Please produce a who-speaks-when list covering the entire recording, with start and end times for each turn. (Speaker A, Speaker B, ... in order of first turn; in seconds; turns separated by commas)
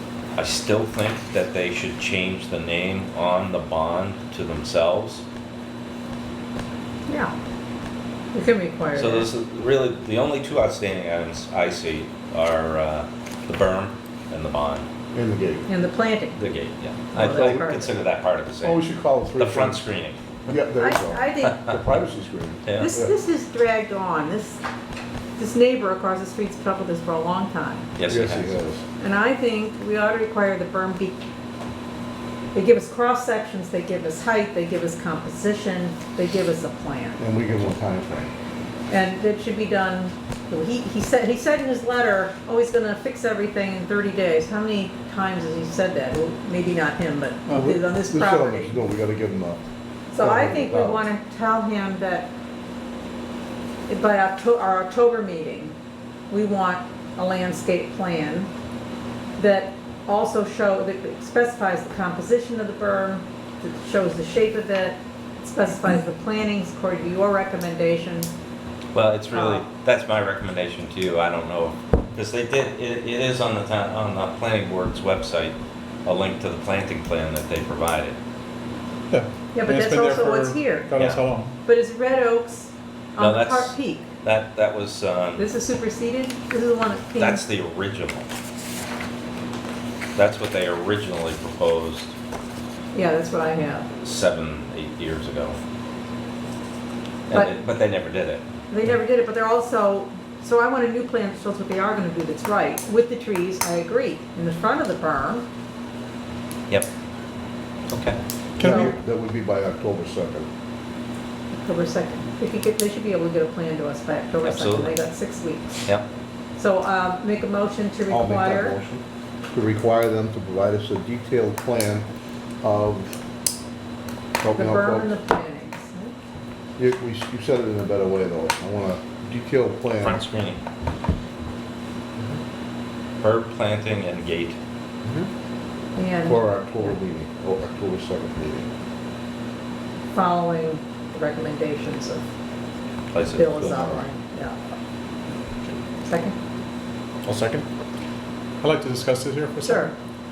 Speaker A: 0.4-5.2, Speaker B: 7.1-7.3, Speaker B: 8.3-9.3, Speaker A: 8.9-14.9, Speaker C: 15.1-15.7, Speaker B: 15.7-16.4, Speaker A: 16.4-18.8, Speaker B: 17.1-17.9, Speaker C: 17.3-17.6, Speaker C: 18.6-19.8, Speaker A: 19.4-20.3, Speaker C: 20.5-23.1, Speaker B: 20.8-21.6, Speaker A: 22.6-22.9, Speaker B: 22.8-24.6, Speaker B: 25.4-27.9, Speaker A: 28.0-28.6, Speaker C: 28.1-28.8, Speaker B: 29.0-31.2, Speaker B: 32.5-37.2, Speaker C: 37.2-38.3, Speaker B: 38.9-48.8, Speaker C: 47.5-49.6, Speaker B: 50.1-52.3, Speaker C: 50.2-51.0, Speaker B: 53.9-55.8, Speaker B: 56.3-58.5, Speaker B: 59.4-68.3, Speaker A: 68.9-78.2, Speaker B: 69.3-69.7, Speaker D: 79.1-81.6, Speaker B: 79.5-80.9, Speaker B: 81.7-84.1, Speaker A: 83.2-85.5, Speaker B: 85.4-87.4, Speaker A: 87.2-88.3, Speaker A: 90.2-92.1, Speaker B: 92.9-93.9, Speaker A: 94.0-95.6, Speaker A: 97.3-98.4, Speaker B: 98.7-105.5, Speaker A: 107.9-108.2, Speaker D: 108.6-108.9, Speaker C: 108.6-110.5, Speaker B: 108.6-108.9, Speaker B: 111.6-115.9, Speaker A: 114.4-115.0, Speaker B: 116.6-118.8, Speaker C: 118.1-122.1, Speaker C: 122.6-123.2, Speaker C: 124.4-125.1, Speaker B: 124.5-126.1, Speaker C: 126.8-130.2, Speaker A: 130.0-130.6, Speaker A: 133.2-134.6, Speaker C: 135.0-135.3, Speaker B: 136.0-136.9, Speaker C: 136.2-138.7, Speaker B: 140.1-142.2, Speaker A: 143.1-143.8, Speaker B: 143.3-144.6, Speaker C: 143.6-144.1, Speaker B: 146.1-146.3, Speaker A: 147.3-147.6, Speaker D: 148.6-150.0, Speaker B: 149.6-149.9